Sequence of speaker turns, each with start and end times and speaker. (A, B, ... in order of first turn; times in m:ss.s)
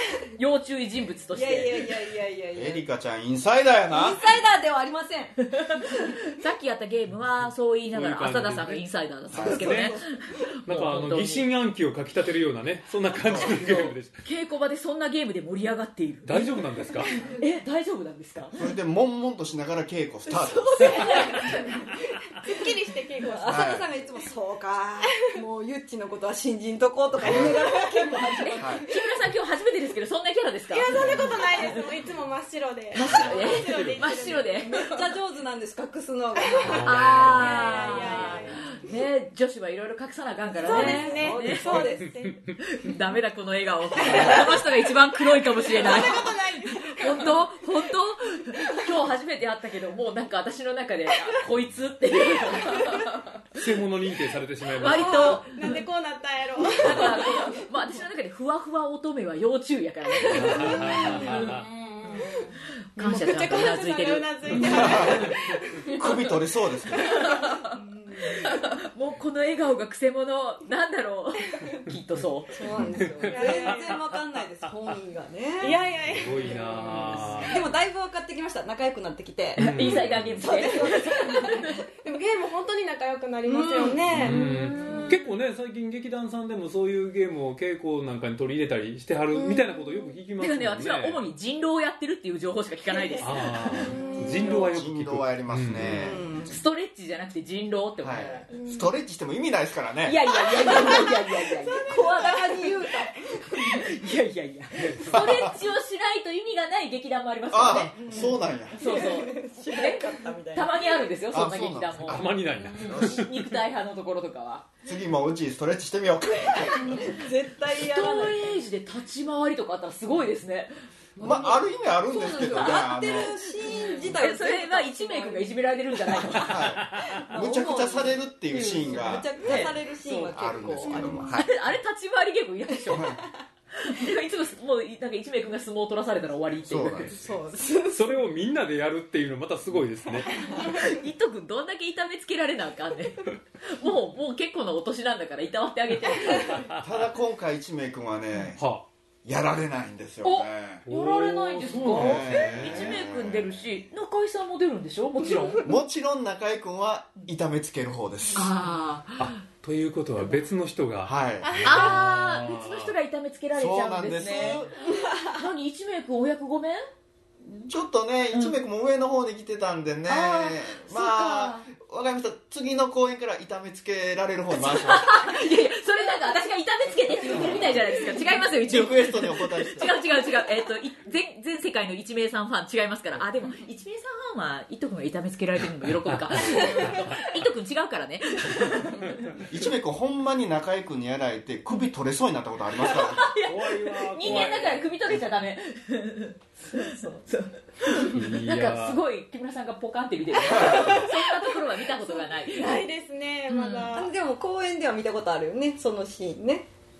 0:00.4-0:02.0 A
0:01.3-0:02.8 B
0:02.5-0:04.2 C
0:03.9-0:05.9 B
0:05.5-0:11.4 A
0:07.9-0:08.8 D
0:09.3-0:09.7 C
0:09.4-0:10.2 B
0:09.5-0:09.9 D
0:10.7-0:14.2 D
0:13.2-0:13.8 C
0:14.2-0:16.5 A
0:16.2-0:17.1 D
0:17.0-0:18.6 A
0:18.6-0:21.1 C
0:20.3-0:28.9 B
0:20.8-0:21.7 A
0:22.4-0:23.8 E
0:23.4-0:23.9 C
0:25.1-0:25.4 E
0:27.2-0:27.6 C
0:28.2-0:31.9 A
0:28.6-0:28.9 C
0:30.7-0:35.1 E
0:32.9-0:34.8 A
0:33.4-0:34.4 D
0:34.6-0:38.3 B
0:36.4-0:38.8 E
0:36.6-0:37.3 D
0:36.7-0:42.0 A
0:40.6-0:42.4 E
0:40.6-0:42.2 B
0:42.5-0:53.4 A
0:44.0-0:44.6 B
0:45.6-0:47.4 E
0:53.5-0:55.3 D
0:54.8-0:55.7 A
0:54.8-0:57.6 E
0:56.8-1:01.6 A
1:00.2-1:01.6 D
1:00.3-1:06.1 E
1:03.0-1:05.3 A
1:04.6-1:05.3 C
1:05.9-1:07.2 C
1:06.9-1:07.7 A
1:07.3-1:08.6 B
1:08.3-1:12.5 A
1:12.5-1:21.8 B
1:12.9-1:13.5 D
1:13.1-1:14.1 E
1:15.6-1:17.4 E
1:16.1-1:17.7 D
1:19.6-1:20.4 D
1:19.6-1:21.8 A
1:22.0-1:25.2 E
1:23.4-1:24.3 B
1:24.1-1:31.2 D
1:24.3-1:25.0 A
1:29.3-1:30.0 E
1:30.4-1:34.6 A
1:33.2-1:36.1 D
1:33.7-1:34.4 E
1:33.7-1:34.5 B
1:34.5-1:36.2 C
1:35.8-1:36.6 B
1:36.5-1:38.5 A
1:38.0-1:40.4 C
1:38.5-1:38.9 E
1:40.0-1:42.3 A
1:40.5-1:43.8 B
1:41.7-1:42.7 E
1:43.6-1:54.7 A
1:44.8-1:45.3 D
1:45.0-1:45.6 C
1:47.5-1:48.8 C
1:48.0-1:51.1 B
1:51.3-1:53.3 C
1:52.0-1:53.4 D
1:54.8-1:57.0 C
1:56.8-1:58.5 B
1:57.7-2:01.6 A
2:01.2-2:03.4 C
2:02.0-2:05.5 B
2:02.5-2:03.2 A
2:04.0-2:06.6 A
2:06.4-2:09.3 C
2:07.1-2:11.3 B
2:08.5-2:13.1 A
2:10.3-2:11.5 C
2:12.9-2:13.2 C
2:13.8-2:17.1 A
2:16.6-2:17.4 C
2:17.2-2:18.2 B
2:17.9-2:20.4 D
2:20.4-2:20.7 B
2:20.5-2:26.6 A
2:26.7-2:28.6 C
2:28.6-2:28.8 D
2:29.2-2:30.8 C
2:30.2-2:35.7 A
2:30.8-2:32.8 D
2:31.9-2:33.6 C
2:35.6-2:38.5 C
2:38.3-2:39.4 A
2:39.2-2:42.9 D
2:41.0-2:41.6 C
2:41.6-2:44.7 A
2:43.5-2:44.7 C
2:45.2-2:46.8 A
2:47.4-2:55.4 C
2:50.1-2:51.6 A
2:54.6-3:09.3 A
2:57.3-3:00.0 C
3:09.3-3:13.3 C
3:12.9-3:22.8 A
3:13.4-3:15.1 D
3:18.0-3:19.0 D
3:20.6-3:20.9 C
3:20.8-3:24.1 E
3:23.5-3:23.9 A
3:23.9-3:26.7 B